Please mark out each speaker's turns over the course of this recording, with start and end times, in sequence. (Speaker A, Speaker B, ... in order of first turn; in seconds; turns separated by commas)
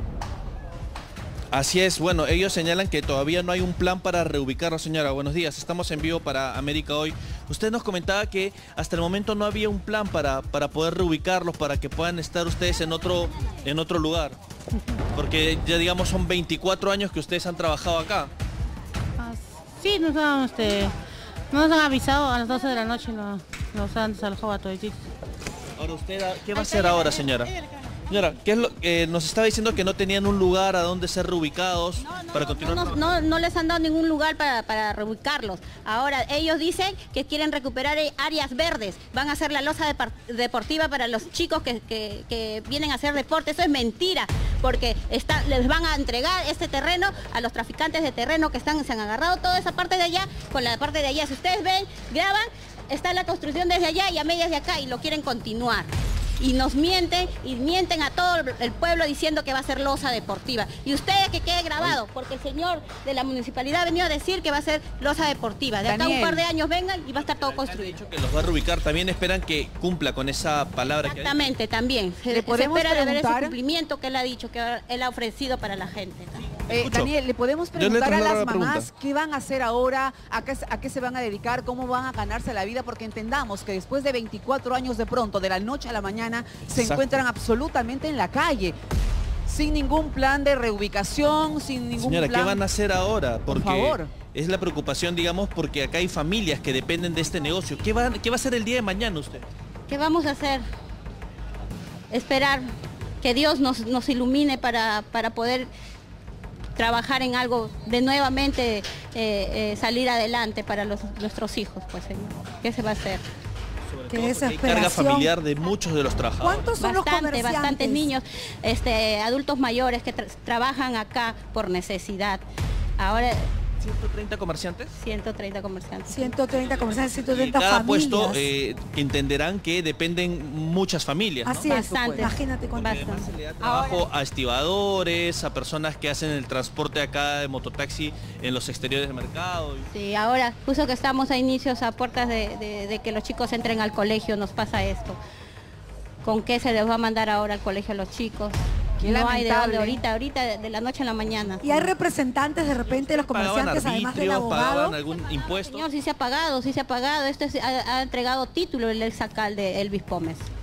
Speaker A: 1.5-14.4, Speaker A: 15.1-18.3, Speaker B: 19.2-20.9, Speaker B: 21.5-25.0, Speaker A: 25.8-27.5, Speaker A: 28.1-33.0, Speaker C: 32.0-68.0, Speaker B: 49.7-50.1, Speaker B: 58.2-60.3, Speaker B: 60.8-61.6, Speaker B: 63.4-64.6, Speaker D: 65.9-66.5, Speaker A: 67.2-71.4, Speaker C: 71.0-76.4, Speaker B: 72.2-72.5, Speaker D: 72.3-73.6, Speaker A: 76.4-77.1, Speaker D: 76.7-88.8, Speaker A: 77.8-78.9, Speaker A: 86.6-87.2, Speaker D: 89.5-92.6, Speaker A: 92.0-99.5, Speaker D: 93.5-94.1, Speaker C: 99.9-100.6, Speaker C: 102.1-102.7, Speaker C: 103.2-105.7, Speaker C: 106.8-113.2, Speaker A: 113.9-116.7, Speaker E: 114.1-115.3, Speaker E: 116.4-118.1, Speaker C: 116.8-122.5, Speaker C: 123.0-123.5, Speaker A: 123.8-125.0, Speaker C: 125.0-126.3, Speaker E: 126.1-128.5, Speaker A: 126.9-131.7, Speaker E: 131.4-132.8, Speaker D: 131.6-132.3, Speaker C: 131.7-134.1, Speaker A: 132.7-139.9, Speaker C: 139.9-145.2, Speaker C: 146.2-151.7, Speaker D: 149.0-150.0, Speaker E: 151.6-155.0, Speaker A: 153.0-155.8, Speaker C: 155.7-160.5